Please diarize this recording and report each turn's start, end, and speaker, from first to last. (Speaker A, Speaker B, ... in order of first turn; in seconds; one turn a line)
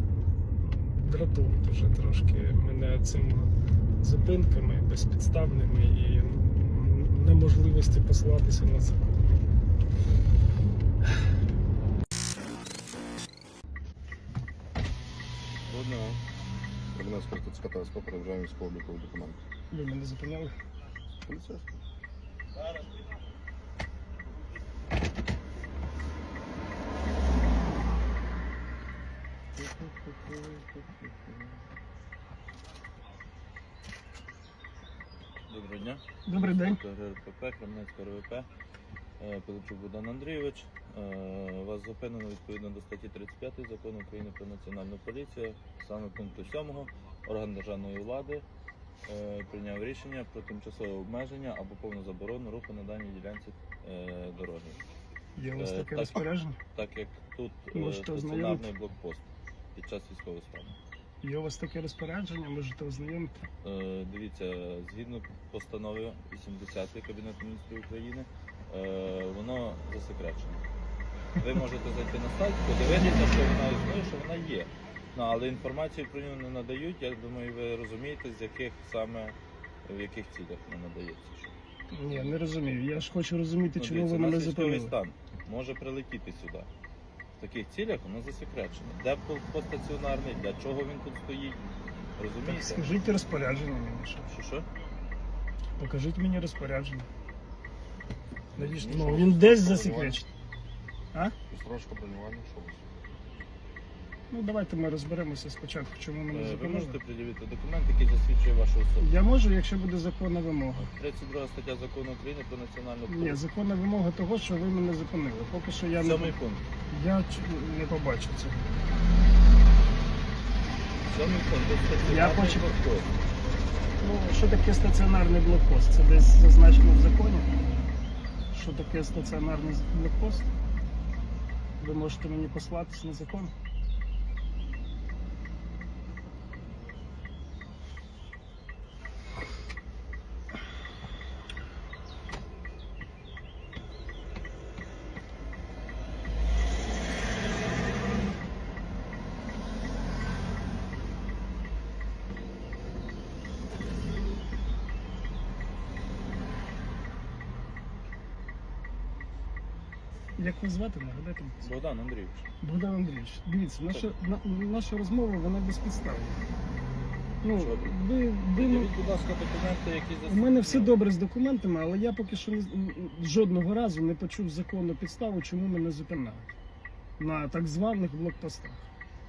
Speaker A: 0.6-9.2
Speaker B: 15.7-16.2
Speaker C: 16.9-19.4
Speaker A: 19.7-20.5
Speaker C: 21.2-21.8
Speaker B: 22.6-22.9
Speaker B: 29.6-31.6
Speaker B: 35.5-38.5
Speaker A: 36.2-36.8
Speaker B: 39.2-48.5
Speaker B: 49.0-54.8
Speaker A: 55.4-56.6
Speaker B: 55.6-60.8
Speaker A: 57.7-58.7
Speaker A: 61.2-63.4
Speaker B: 63.6-70.6
Speaker B: 71.4-81.5
Speaker A: 81.9-84.9
Speaker B: 82.1-83.0
Speaker B: 83.7-86.7
Speaker B: 87.4-92.8
Speaker A: 92.4-94.3
Speaker B: 94.3-94.7
Speaker A: 95.8-97.1
Speaker A: 98.5-100.3
Speaker C: 98.6-100.2
Speaker C: 101.5-102.9
Speaker A: 104.3-107.0
Speaker B: 106.3-109.1
Speaker A: 109.0-110.9
Speaker B: 110.8-113.4
Speaker A: 113.1-116.3
Speaker B: 116.0-116.6
Speaker A: 116.9-118.8
Speaker B: 121.0-123.1
Speaker A: 122.0-122.7
Speaker A: 124.0-127.5
Speaker A: 128.5-130.5
Speaker A: 131.8-133.5
Speaker A: 160.4-161.6
Speaker B: 161.6-162.4
Speaker A: 162.6-166.4
Speaker A: 167.4-168.9
Speaker B: 167.5-171.0
Speaker A: 170.3-176.5
Speaker A: 177.2-178.8